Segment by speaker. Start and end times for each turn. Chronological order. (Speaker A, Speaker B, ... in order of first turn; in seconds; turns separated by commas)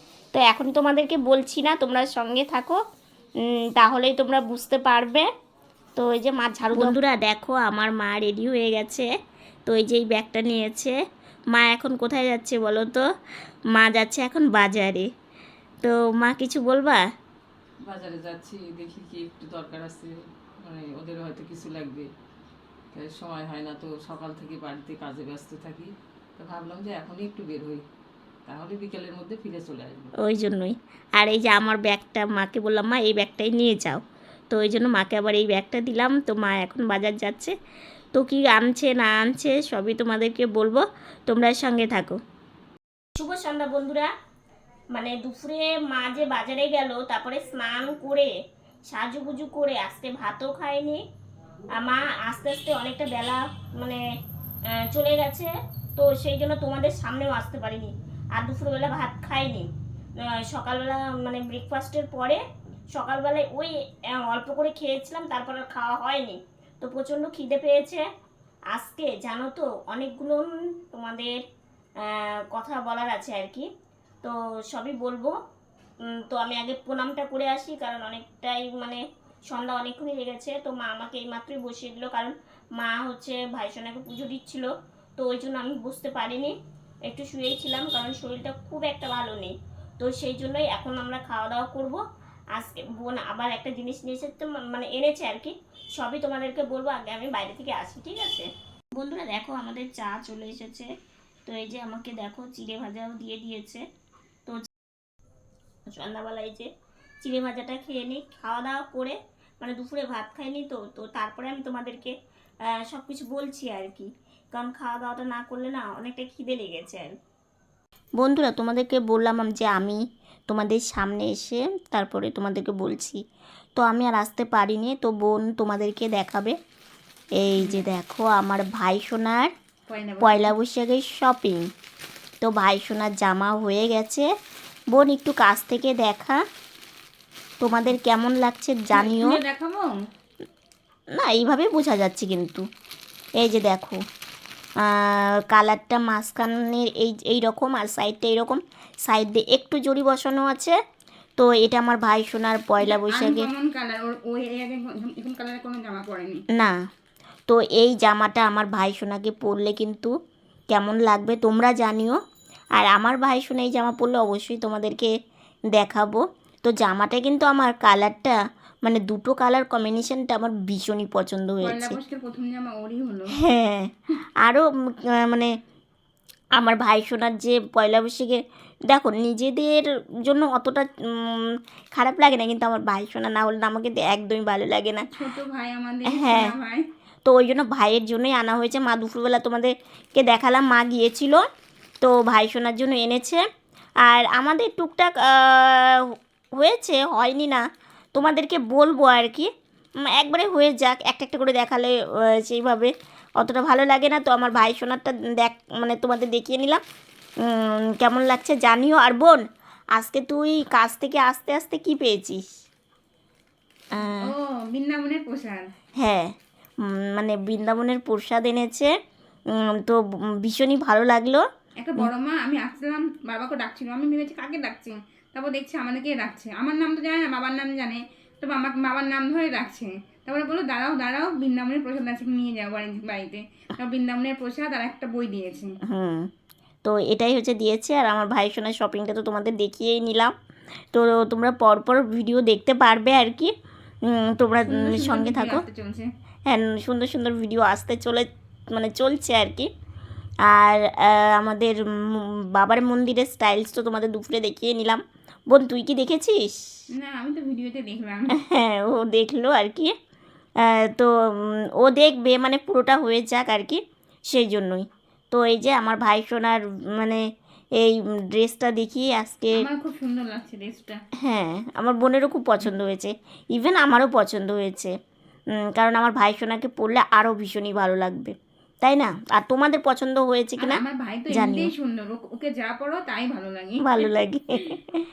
Speaker A: 0.3-2.8, Speaker A: 3.7-5.3, Speaker A: 6.0-9.1, Speaker A: 9.7-10.9, Speaker A: 11.5-13.0, Speaker A: 13.7-15.1, Speaker A: 15.8-17.0, Speaker B: 17.9-22.1, Speaker B: 22.9-27.8, Speaker B: 28.5-30.1, Speaker A: 30.2-37.5, Speaker A: 38.1-42.2, Speaker A: 43.2-44.1, Speaker A: 44.9-48.3, Speaker A: 48.9-51.0, Speaker A: 51.8-54.0, Speaker A: 54.7-59.7, Speaker A: 60.3-62.4, Speaker A: 62.9-68.0, Speaker A: 68.7-71.3, Speaker A: 72.0-73.7, Speaker A: 74.2-75.3, Speaker A: 76.1-86.5, Speaker A: 87.1-92.0, Speaker A: 92.5-100.9, Speaker A: 101.5-103.8, Speaker A: 105.9-106.7, Speaker A: 107.2-112.1, Speaker A: 112.7-117.2, Speaker A: 118.2-123.2, Speaker A: 123.8-126.6, Speaker A: 127.4-129.5, Speaker C: 127.5-127.8, Speaker C: 129.9-130.5, Speaker A: 130.2-131.7, Speaker A: 132.4-134.3, Speaker A: 134.9-136.4, Speaker A: 137.6-139.4, Speaker C: 138.9-140.0, Speaker A: 141.1-142.7, Speaker A: 143.4-144.0, Speaker A: 144.8-150.8, Speaker A: 151.4-153.5, Speaker C: 152.8-156.4, Speaker A: 157.5-160.1, Speaker A: 160.7-162.2, Speaker A: 162.8-165.1, Speaker A: 165.7-172.0, Speaker C: 171.6-173.3, Speaker A: 173.4-175.5, Speaker A: 176.6-185.1, Speaker C: 185.1-186.9, Speaker A: 186.1-186.5, Speaker A: 187.2-191.4, Speaker A: 192.0-193.4, Speaker A: 194.0-197.6, Speaker A: 198.2-199.5, Speaker A: 200.0-206.8, Speaker A: 207.4-209.4, Speaker A: 209.9-212.5, Speaker A: 213.9-214.3, Speaker C: 214.0-215.7, Speaker A: 216.0-218.9, Speaker A: 219.5-221.4, Speaker C: 221.8-235.7, Speaker A: 235.9-236.3, Speaker A: 236.8-240.3, Speaker A: 240.9-243.5, Speaker A: 244.1-245.7, Speaker C: 244.7-246.1, Speaker A: 246.5-249.7, Speaker A: 250.4-256.6, Speaker C: 256.9-258.3, Speaker A: 258.4-259.9, Speaker A: 260.6-267.2, Speaker A: 267.8-269.6, Speaker C: 269.6-271.0, Speaker A: 271.2-274.9, Speaker A: 275.6-281.7, Speaker C: 280.6-284.1, Speaker A: 283.8-285.1